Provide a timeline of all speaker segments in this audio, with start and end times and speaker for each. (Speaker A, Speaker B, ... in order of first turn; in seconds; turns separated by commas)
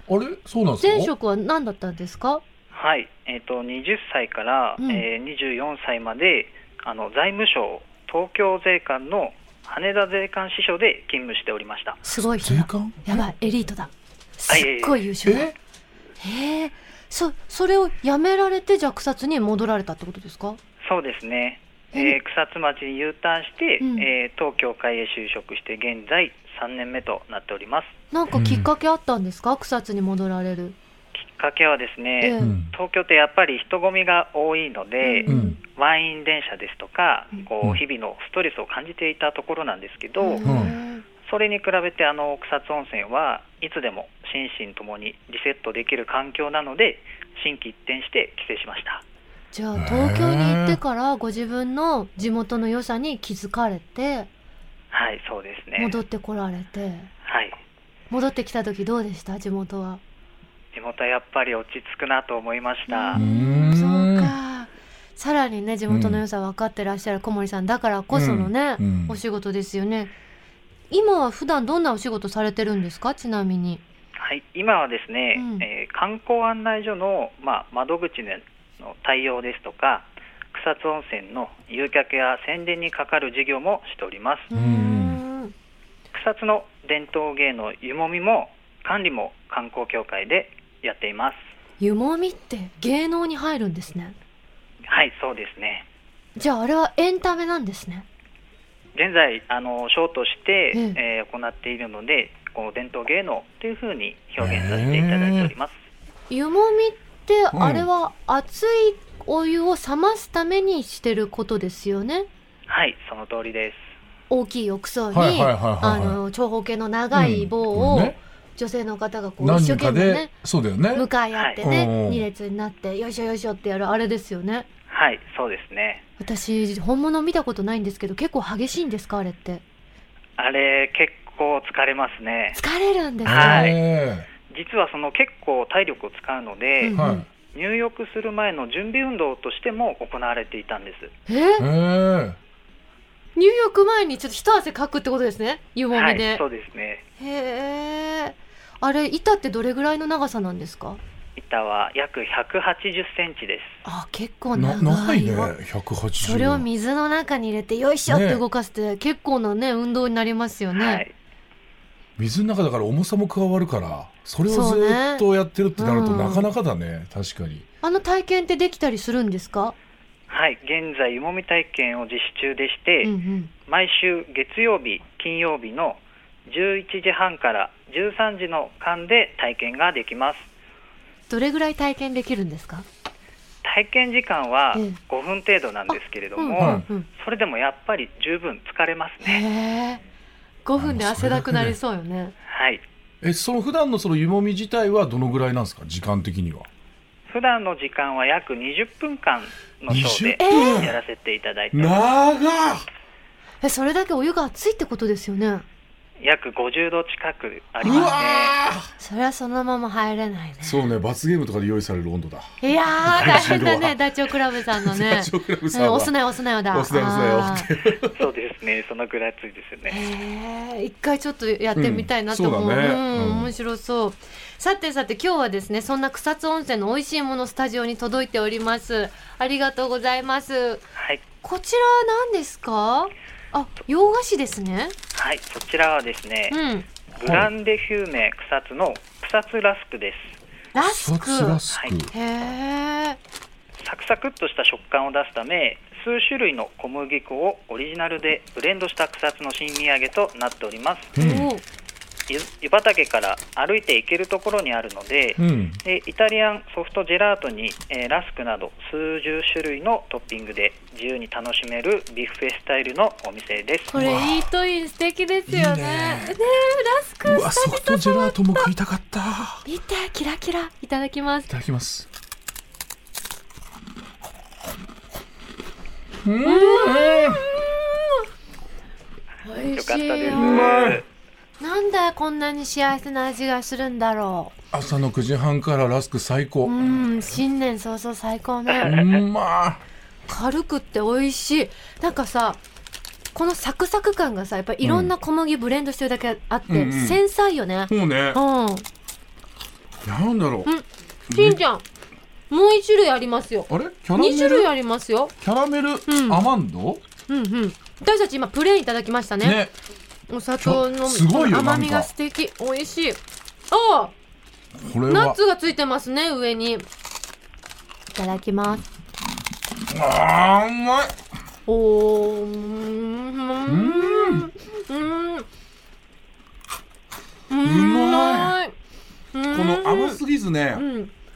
Speaker A: 0.1-1.1, Speaker B: 0.8-2.4, Speaker C: 2.7-12.0, Speaker B: 4.8-5.0, Speaker B: 12.0-15.5, Speaker A: 12.4-13.3, Speaker C: 14.5-15.0, Speaker A: 15.2-15.5, Speaker B: 16.2-20.6, Speaker C: 20.8-27.9, Speaker B: 23.8-24.1, Speaker B: 28.1-30.8, Speaker A: 28.3-28.7, Speaker C: 31.1-40.4, Speaker B: 32.2-32.5, Speaker A: 32.4-32.7, Speaker B: 35.0-35.6, Speaker A: 35.3-35.6, Speaker B: 40.2-41.0, Speaker A: 40.4-40.8, Speaker C: 41.2-49.0, Speaker B: 49.5-54.3, Speaker A: 49.8-50.8, Speaker C: 54.9-56.0, Speaker B: 55.8-57.1, Speaker C: 57.3-57.6, Speaker B: 58.1-60.0, Speaker C: 60.7-63.2, Speaker B: 62.9-70.1, Speaker A: 63.1-64.3, Speaker A: 65.9-66.2, Speaker A: 68.1-69.2, Speaker B: 70.9-73.8, Speaker C: 74.2-84.5, Speaker B: 75.3-75.7, Speaker B: 84.5-85.5, Speaker A: 84.5-85.2, Speaker C: 86.1-91.4, Speaker B: 91.8-94.2, Speaker C: 94.9-95.9, Speaker B: 96.4-98.0, Speaker C: 99.0-105.8, Speaker B: 100.7-101.0, Speaker A: 104.4-105.5, Speaker B: 106.3-112.3, Speaker A: 107.5-107.9, Speaker C: 112.7-113.9, Speaker B: 114.3-120.3, Speaker A: 115.1-116.2, Speaker A: 117.1-118.2, Speaker A: 119.4-121.1, Speaker B: 120.9-124.7, Speaker A: 121.6-122.2, Speaker C: 124.9-126.0, Speaker B: 126.2-129.6, Speaker C: 130.4-132.6, Speaker B: 132.6-133.7, Speaker A: 133.2-134.3, Speaker C: 133.3-133.8, Speaker C: 134.5-141.1, Speaker B: 136.8-137.3, Speaker A: 137.0-137.3, Speaker B: 141.3-141.7, Speaker A: 141.6-142.4, Speaker B: 143.4-146.4, Speaker C: 145.9-147.0, Speaker B: 147.2-151.0, Speaker C: 151.4-153.8, Speaker B: 153.8-155.5, Speaker A: 154.6-156.7, Speaker B: 156.2-161.0, Speaker A: 158.1-158.4, Speaker C: 160.8-161.1, Speaker A: 162.2-167.6, Speaker B: 164.5-165.2, Speaker B: 165.8-166.5, Speaker B: 167.8-169.8, Speaker C: 170.3-173.1, Speaker B: 173.0-173.5, Speaker C: 173.7-180.5, Speaker B: 181.3-182.9, Speaker C: 183.6-189.4, Speaker B: 185.9-187.1, Speaker A: 186.6-186.9, Speaker B: 189.2-190.0, Speaker B: 190.7-192.3, Speaker A: 190.8-191.8, Speaker C: 192.5-192.8, Speaker A: 193.2-196.7, Speaker C: 197.3-202.0, Speaker A: 199.9-201.0, Speaker B: 200.4-200.9, Speaker A: 201.7-202.9, Speaker B: 203.6-205.7, Speaker C: 206.2-208.6, Speaker A: 207.8-208.9, Speaker B: 207.8-208.3, Speaker B: 209.0-210.8, Speaker A: 210.6-216.2, Speaker B: 212.6-217.7, Speaker A: 216.7-218.2, Speaker C: 218.1-220.0, Speaker B: 219.9-230.8, Speaker A: 221.8-223.5, Speaker C: 231.0-231.2, Speaker B: 231.4-234.9, Speaker C: 235.1-236.6, Speaker B: 236.5-236.9, Speaker C: 237.2-240.4, Speaker A: 237.2-237.5, Speaker B: 240.7-243.2, Speaker A: 240.8-242.1, Speaker C: 243.8-251.2, Speaker A: 251.2-251.5, Speaker B: 251.2-251.6, Speaker C: 252.3-264.0, Speaker A: 255.4-255.8, Speaker B: 263.9-268.7, Speaker A: 263.9-264.5, Speaker A: 265.5-266.4, Speaker A: 267.2-269.6, Speaker B: 269.6-271.5, Speaker A: 271.5-272.1, Speaker A: 276.2-277.5, Speaker B: 276.4-278.2, Speaker B: 279.4-280.8, Speaker C: 279.6-281.0, Speaker A: 280.3-281.0, Speaker B: 281.6-284.6, Speaker A: 284.7-287.0, Speaker B: 286.6-289.0, Speaker C: 288.7-289.2, Speaker A: 288.8-289.8, Speaker B: 290.3-292.6, Speaker B: 293.3-298.9, Speaker A: 294.8-295.1, Speaker A: 296.7-297.2, Speaker A: 297.9-298.4, Speaker A: 300.0-300.7, Speaker B: 300.7-301.8, Speaker A: 301.3-301.6, Speaker B: 302.5-305.4, Speaker A: 303.7-304.7, Speaker A: 305.4-307.0, Speaker B: 306.1-306.4, Speaker B: 307.3-309.6, Speaker A: 309.4-309.7, Speaker B: 310.3-314.1, Speaker A: 310.6-312.1, Speaker A: 314.8-315.4, Speaker B: 315.1-316.9, Speaker B: 318.1-318.8, Speaker A: 319.9-321.2, Speaker B: 321.7-325.5, Speaker A: 323.7-324.5, Speaker B: 327.5-328.7, Speaker A: 327.6-328.6, Speaker B: 329.3-330.2, Speaker A: 329.5-330.9, Speaker B: 330.7-331.1